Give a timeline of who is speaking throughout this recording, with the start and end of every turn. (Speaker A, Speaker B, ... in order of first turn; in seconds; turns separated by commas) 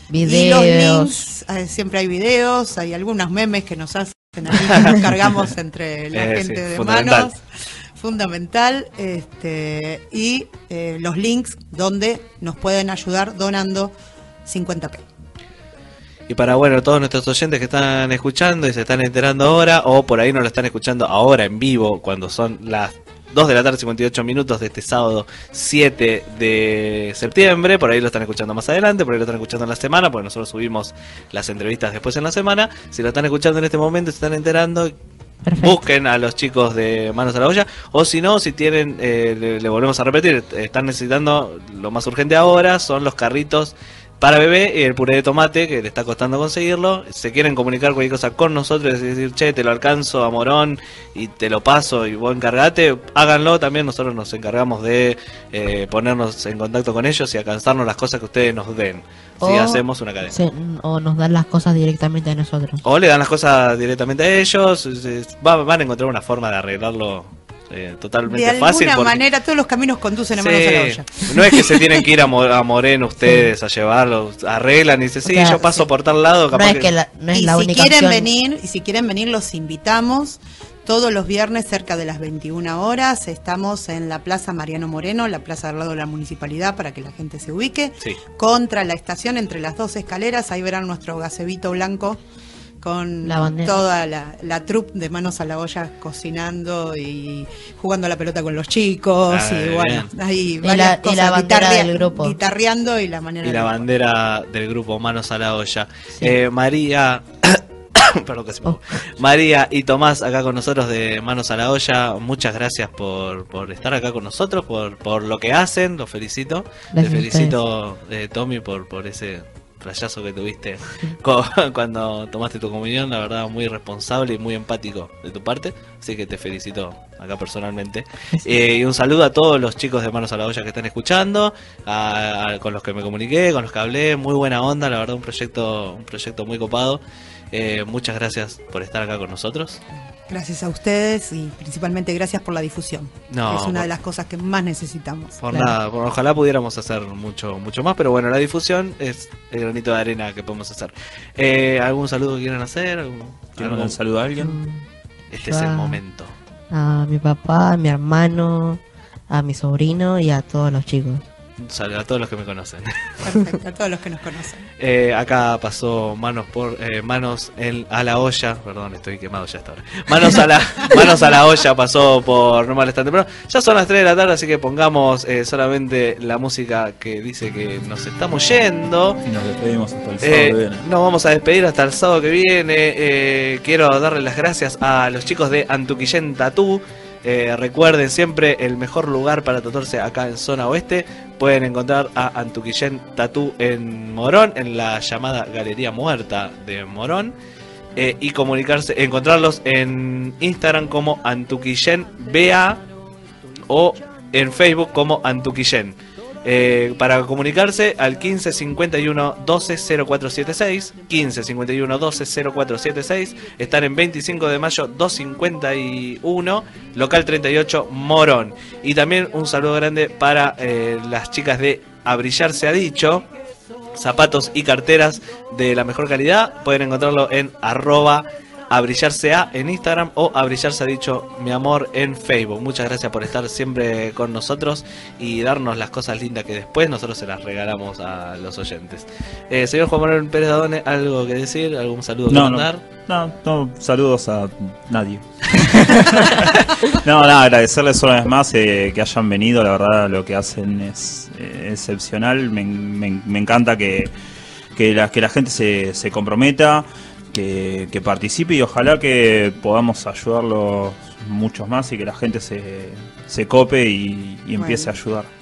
Speaker A: 0.1-1.1, Speaker B: 0.2-7.4, Speaker C: 6.1-7.3, Speaker B: 8.0-13.9, Speaker B: 14.4-15.0, Speaker C: 16.3-34.9, Speaker A: 35.4-35.8, Speaker C: 35.6-60.3, Speaker A: 59.4-62.8, Speaker C: 62.8-69.2, Speaker B: 68.2-71.9, Speaker C: 70.4-76.9, Speaker A: 75.2-75.6, Speaker A: 76.5-78.3, Speaker B: 77.3-92.2, Speaker B: 92.8-103.8, Speaker A: 93.2-93.8, Speaker C: 99.3-100.1, Speaker A: 100.6-102.4, Speaker C: 103.4-137.0, Speaker A: 116.9-117.6, Speaker A: 128.3-128.6, Speaker C: 137.5-139.8, Speaker B: 139.9-145.4, Speaker C: 143.3-143.9, Speaker C: 145.4-154.0, Speaker D: 153.6-154.6, Speaker A: 154.4-156.0, Speaker C: 155.3-156.3, Speaker A: 156.7-161.2, Speaker C: 161.6-163.1, Speaker B: 163.2-164.7, Speaker C: 164.8-179.2, Speaker D: 179.2-180.8, Speaker C: 180.2-197.3, Speaker C: 197.9-202.8, Speaker C: 203.6-223.3, Speaker C: 223.9-242.8, Speaker D: 242.3-254.1, Speaker D: 254.7-265.3, Speaker B: 264.6-264.9